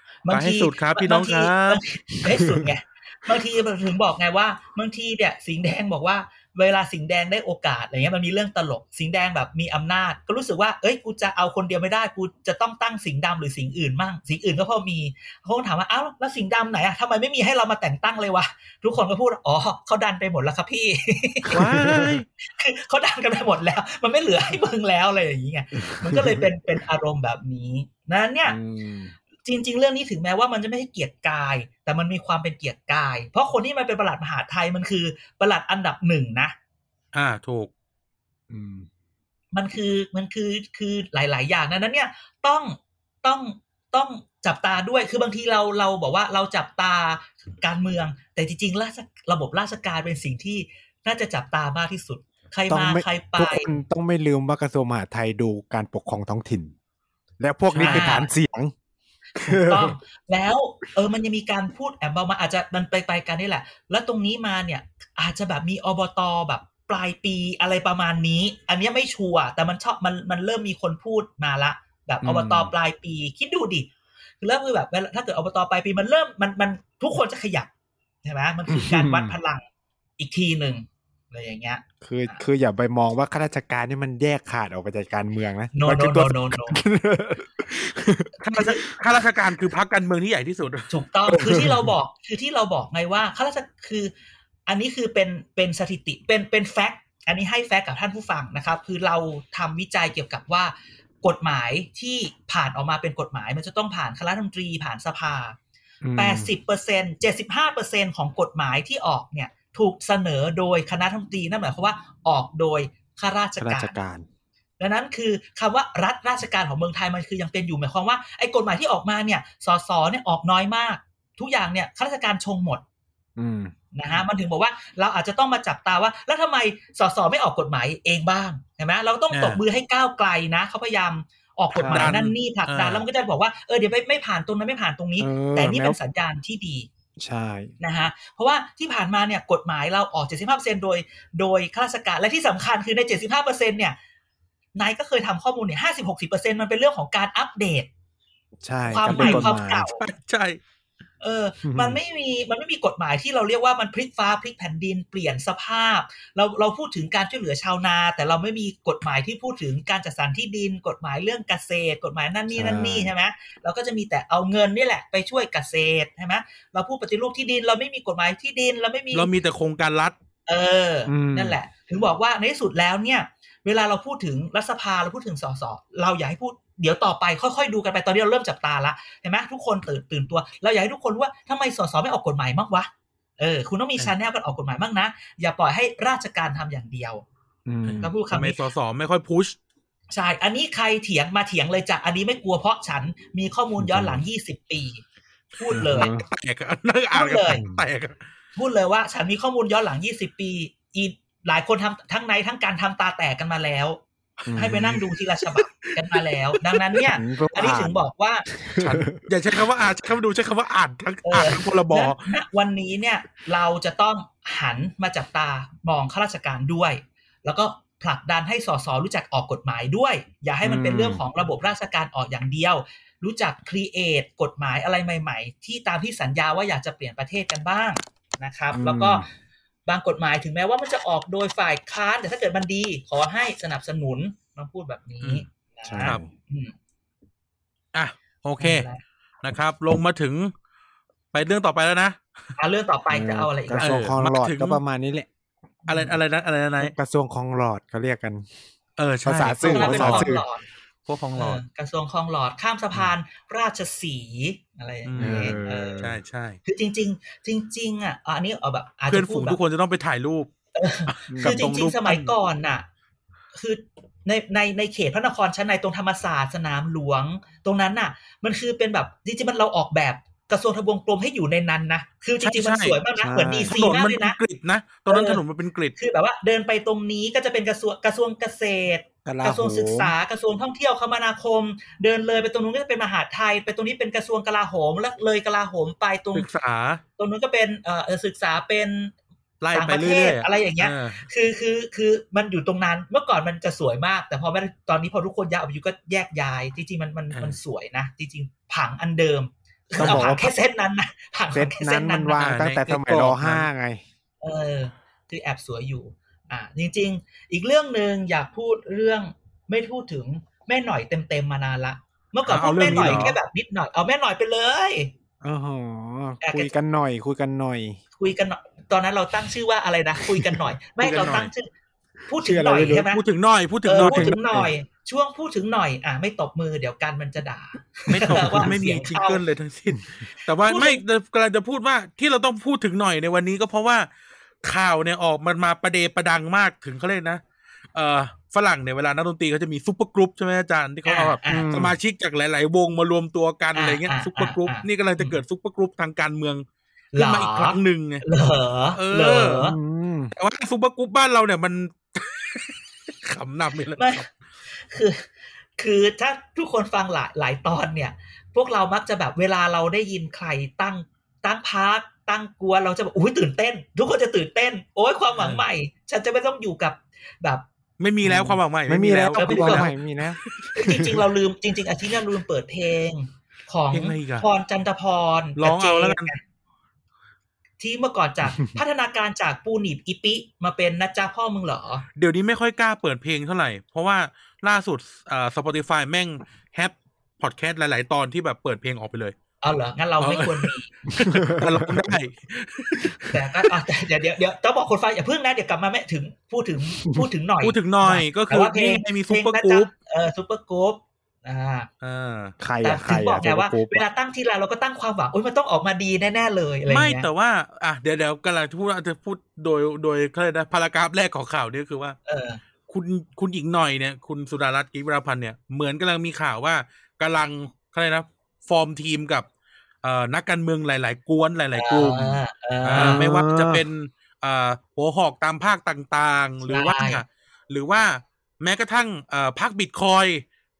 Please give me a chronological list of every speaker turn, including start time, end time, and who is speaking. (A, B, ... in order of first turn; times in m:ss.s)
0:00.2-0:21.8 A
0:00.3-0:01.8 B
0:02.3-0:02.7 C
0:21.5-0:22.2 B
0:21.8-0:22.2 C
0:22.5-0:28.6 A
0:25.9-0:26.4 C
0:28.5-0:29.1 C
0:29.4-0:36.5 A
0:37.1-0:37.7 B
0:38.5-0:38.9 C
0:39.5-0:53.7 A
0:52.7-0:56.7 C
0:57.4-0:58.7 C
0:57.7-0:58.1 B
0:57.8-0:58.3 A
0:59.4-1:00.0 C
0:59.4-1:13.9 A
1:12.2-1:12.7 C
1:14.4-1:17.7 A
1:18.2-1:19.6 A
1:18.7-1:19.4 C
1:20.2-1:22.4 A
1:22.0-1:28.8 C
1:25.7-1:26.8 A
1:28.4-1:30.9 B
1:30.9-1:34.1 A
1:31.3-1:31.9 C
1:34.6-1:45.6 A
1:46.0-1:46.5 C
1:46.2-1:54.0 A
1:53.6-1:54.3 C
1:54.8-2:02.8 A
2:03.4-2:03.7 C
2:03.9-2:16.9 A
2:09.3-2:09.6 B
2:11.7-2:12.2 C
2:11.9-2:13.0 B
2:15.2-2:16.0 C
2:17.2-2:17.7 C
2:17.8-2:24.0 A
2:24.7-2:27.9 A
2:28.6-2:29.9 C
2:28.9-2:30.0 A
2:29.0-2:30.6 B
2:31.2-2:49.3 A
2:31.6-2:32.0 C
2:42.5-2:43.1 C
2:49.1-2:50.1 B
2:50.5-3:07.2 A
2:51.0-2:51.6 C
3:07.6-3:08.1 C
3:07.8-3:09.6 B
3:08.0-3:08.6 A
3:10.1-3:15.0 A
3:13.8-3:14.2 C
3:15.6-3:16.1 A
3:15.7-3:18.2 B
3:15.7-3:16.2 C
3:17.1-3:17.6 A
3:18.6-3:24.0 A
3:24.4-3:27.0 B
3:24.5-3:25.0 C
3:24.5-3:28.4 A
3:27.0-3:29.2 C
3:28.8-3:32.2 B
3:31.2-3:49.2 A
3:40.6-3:41.2 C
3:48.7-3:49.3 C
3:49.8-3:56.7 A
3:55.8-3:56.3 C
3:57.9-3:58.9 B
3:58.6-3:59.0 A
3:59.4-4:00.5 B
4:01.3-4:02.2 B
4:02.6-4:04.0 A
4:03.1-4:05.3 C
4:03.8-4:04.8 B
4:05.8-4:06.2 A
4:05.9-4:06.9 B
4:06.8-4:08.4 C
4:09.0-4:10.4 B
4:09.2-4:10.4 C
4:09.6-4:10.6 A
4:11.1-4:11.6 B
4:11.3-4:16.0 A
4:15.0-4:16.6 B
4:15.2-4:16.2 C
4:16.6-4:19.6 A
4:19.1-4:20.5 B
4:20.7-4:22.8 A
4:21.1-4:22.3 B
4:21.3-4:21.6 C
4:23.5-4:34.4 A
4:32.4-4:33.0 B
4:33.2-4:33.7 C
4:33.7-4:35.9 B
4:35.1-4:35.4 A
4:36.0-4:46.5 A
4:39.2-4:40.1 C
4:46.3-4:47.0 B
4:47.2-4:49.2 A
4:49.6-4:51.3 B
4:49.7-5:02.4 A
5:00.0-5:00.5 C
5:01.5-5:04.0 C
5:02.4-5:03.7 B
5:04.4-5:15.1 A
5:12.4-5:13.4 B
5:12.9-5:13.2 C
5:15.4-5:18.0 C
5:16.4-5:16.7 A
5:18.2-5:21.7 A
5:21.0-5:21.5 B
5:22.3-5:23.2 A
5:22.4-5:23.1 C
5:23.0-5:24.4 B
5:23.8-5:29.4 A
5:23.9-5:24.7 C
5:28.1-5:34.1 B
5:28.3-5:28.7 C
5:30.6-5:31.0 A
5:34.6-5:37.4 B
5:37.9-5:48.2 B
5:41.0-5:41.7 A
5:41.5-5:42.0 C
5:43.7-5:45.4 A
5:47.1-5:49.8 A
5:48.9-5:49.7 B
5:49.6-5:50.3 C
5:50.3-5:54.3 B
5:54.0-5:55.2 A
5:55.8-6:07.6 A
6:05.4-6:05.6 B
6:08.0-6:10.9 B
6:08.2-6:11.2 C
6:09.4-6:09.9 A
6:10.7-6:16.4 A
6:13.9-6:14.4 B
6:15.6-6:16.3 B
6:17.8-6:22.0 A
6:22.2-6:29.4 B
6:29.6-6:30.9 A
6:30.2-6:33.4 B
6:31.1-6:32.2 C
6:33.3-6:41.9 A
6:37.6-6:39.9 B
6:42.0-6:42.5 B
6:42.6-6:44.0 C
6:42.8-6:47.3 A
6:46.9-6:52.2 B
6:52.2-6:52.6 A
6:52.9-6:59.5 B
7:00.0-7:10.4 B
7:01.8-7:03.2 A
7:02.9-7:03.8 C
7:06.6-7:07.2 A